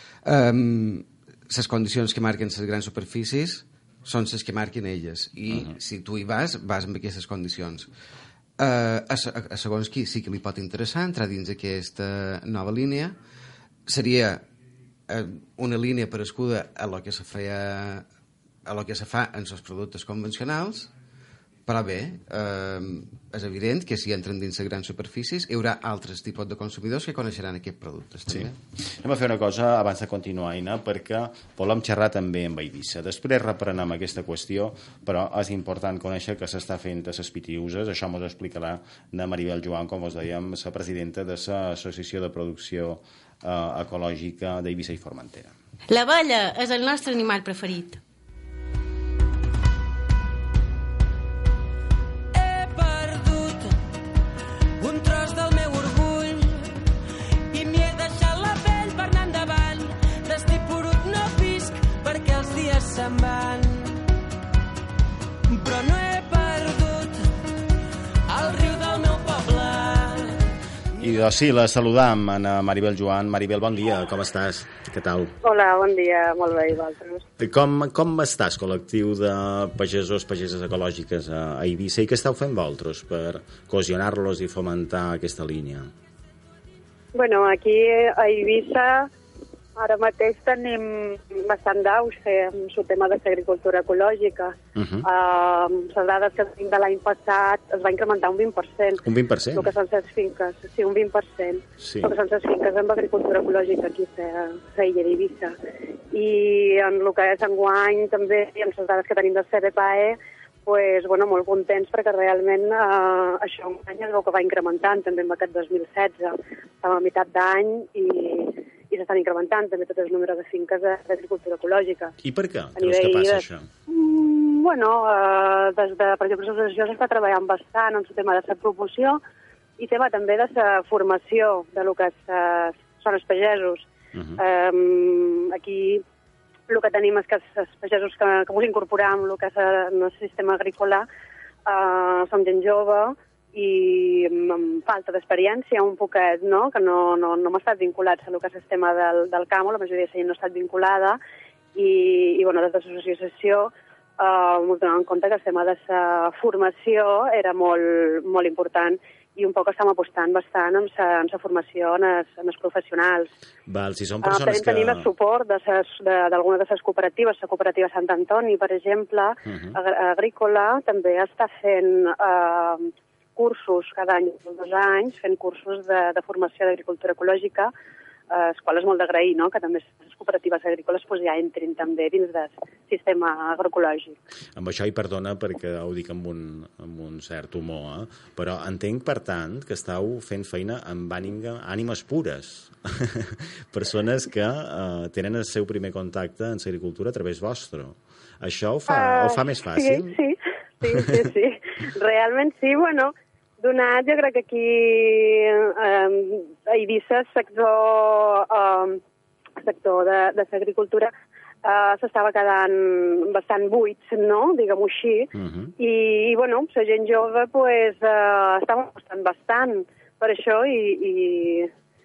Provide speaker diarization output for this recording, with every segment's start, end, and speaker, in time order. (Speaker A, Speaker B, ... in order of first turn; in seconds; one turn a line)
Speaker A: 0.2-7.9
Speaker A: 8.6-13.2
Speaker A: 13.8-14.4
Speaker A: 15.1-18.0
Speaker A: 18.6-20.9
Speaker A: 21.7-28.6
Speaker B: 28.3-45.5
Speaker C: 45.9-48.0
Speaker D: 52.3-53.8
Speaker D: 54.8-56.7
Speaker D: 57.5-64.0
Speaker D: 65.5-67.3
Speaker D: 68.3-70.4
Speaker B: 71.0-75.3
Speaker E: 75.4-77.2
Speaker B: 77.4-85.9
Speaker E: 87.1-89.1
Speaker E: 89.8-105.5
Speaker B: 94.7-95.0
Speaker B: 99.0-99.7
Speaker B: 101.8-102.1
Speaker E: 106.1-122.1
Speaker B: 122.2-123.7
Speaker E: 122.8-129.2
Speaker E: 129.8-133.9
Speaker B: 134.1-134.4
Speaker E: 134.4-136.0
Speaker E: 136.7-141.0
Speaker E: 141.7-151.2
Speaker E: 151.7-163.3
Speaker B: 163.7-165.1
Speaker E: 164.2-177.7
Speaker B: 169.4-169.8
Speaker E: 178.3-184.2
Speaker B: 184.6-200.1
Speaker E: 198.9-209.0
Speaker B: 200.8-201.3
Speaker E: 209.6-211.1
Speaker E: 211.6-221.7
Speaker B: 215.3-215.7